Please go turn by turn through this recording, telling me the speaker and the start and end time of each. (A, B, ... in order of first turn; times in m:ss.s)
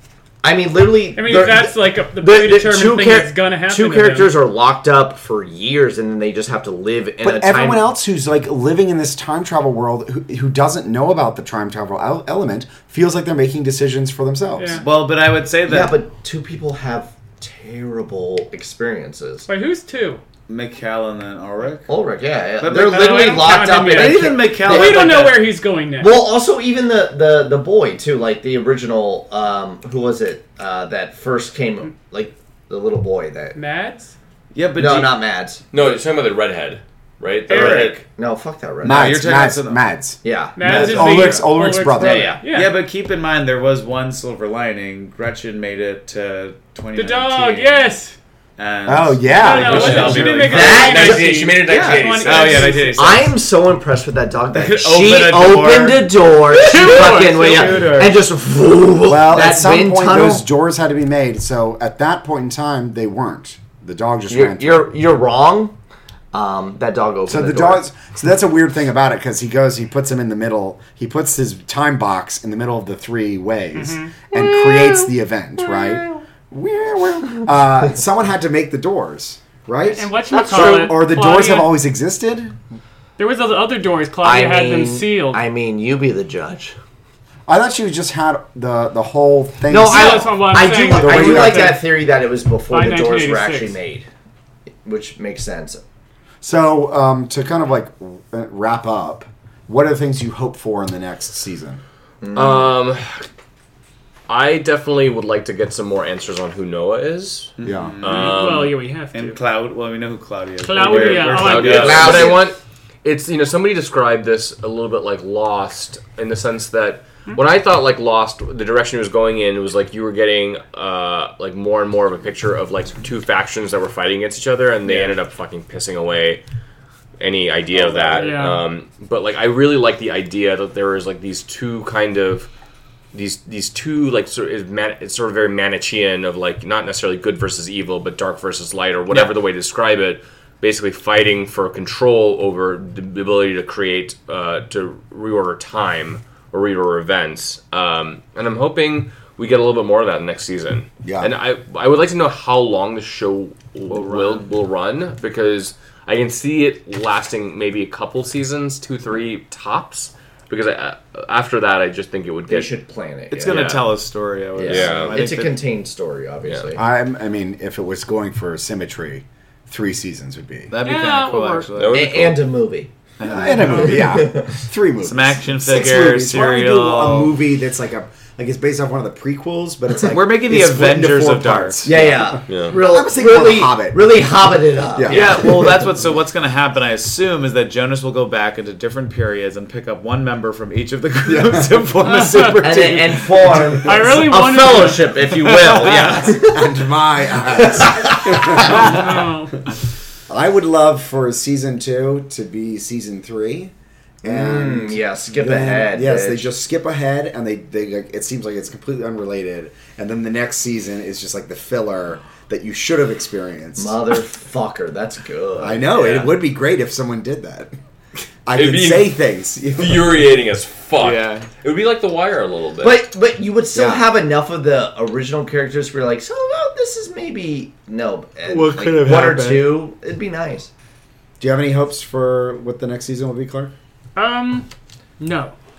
0:00.4-0:07.8 A
0:01.2-0:04.3 B
0:07.2-0:14.8 C
0:14.5-0:14.8 B
0:14.7-0:16.0 D
0:15.7-0:19.5 A
0:19.5-0:20.2 B
0:20.5-0:21.9 D
0:21.9-0:25.2 A
0:22.6-0:25.5 D
0:22.8-0:26.2 B
0:26.0-0:33.6 A
0:33.5-0:34.1 B
0:34.5-0:35.2 D
0:34.8-0:35.6 A
0:35.7-0:38.0 E
0:37.5-0:38.0 B
0:37.5-0:38.0 D
0:38.0-0:39.1 A
0:38.8-0:42.3 C
0:38.8-0:39.8 D
0:40.2-0:40.8 A
0:40.5-0:42.7 B
0:40.6-0:41.6 D
0:41.9-0:42.4 A
0:42.4-0:47.9 D
0:47.0-0:48.2 B
0:48.6-0:53.4 D
0:48.8-0:50.3 C
0:49.3-0:53.1 B
0:49.8-0:51.6 A
0:49.8-0:52.7 E
0:52.9-1:00.4 A
0:54.5-0:58.2 D
0:56.6-0:57.8 B
0:59.0-1:04.9 C
1:04.3-1:05.7 A
1:06.3-1:07.8 A
1:07.2-1:22.6 C
1:13.7-1:14.2 B
1:19.8-1:21.7 B
1:20.3-1:21.0 A
1:23.2-1:25.4 B
1:24.2-1:26.8 A
1:27.5-1:31.8 C
1:29.7-1:34.1 A
1:29.8-1:31.8 B
1:32.7-1:33.8 B
1:34.8-1:35.8 A
1:36.4-1:41.8 C
1:42.2-1:42.7 A
1:42.3-1:43.2 E
1:44.3-1:48.7 E
1:47.6-1:48.5 D
1:47.6-1:48.0 C
1:48.0-1:49.4 B
1:49.1-1:52.3 D
1:50.6-1:52.3 B
1:51.1-2:06.4 E
1:51.6-1:52.5 A
2:04.8-2:05.2 D
2:07.2-2:12.5 E
2:07.7-2:08.4 D
2:08.2-2:08.6 B
2:13.1-2:42.7 E
2:31.0-2:31.3 C
2:33.9-2:34.5 D
2:42.5-2:43.8 A
2:43.3-2:45.6 D
2:43.4-2:43.8 E
2:44.6-2:46.8 A
2:44.6-2:45.2 E
2:46.4-2:46.7 E
2:46.7-2:50.7 C
2:50.7-2:52.0 D
2:50.8-2:51.7 B
2:51.7-2:52.5 E
2:51.9-2:52.9 A
2:53.2-2:54.0 D
2:53.2-3:04.2 C
2:53.6-2:53.9 B
2:53.6-2:54.6 A
2:55.0-2:57.3 D
3:00.1-3:01.9 D
3:01.8-3:05.8 A
3:02.5-3:02.8 E
3:04.9-3:05.8 C
3:05.1-3:13.8 D
3:11.2-3:11.9 C
3:12.1-3:12.6 B
3:12.6-3:16.8 A
3:13.7-3:15.2 B
3:15.3-3:16.4 D
3:15.9-3:19.1 C
3:17.5-3:18.8 A
3:18.5-3:19.6 B
3:20.3-3:23.7 C
3:24.2-3:34.0 C
3:24.2-3:26.5 A
3:33.8-3:36.3 A
3:35.6-3:37.7 C
3:38.4-3:40.3 C
3:38.5-3:39.2 E
3:39.7-3:43.0 E
3:41.0-3:41.5 D
3:42.8-3:50.7 A
3:43.7-3:44.1 C
3:48.5-3:49.8 D
3:51.4-3:53.7 C
3:54.2-3:54.7 B
3:55.2-3:55.5 B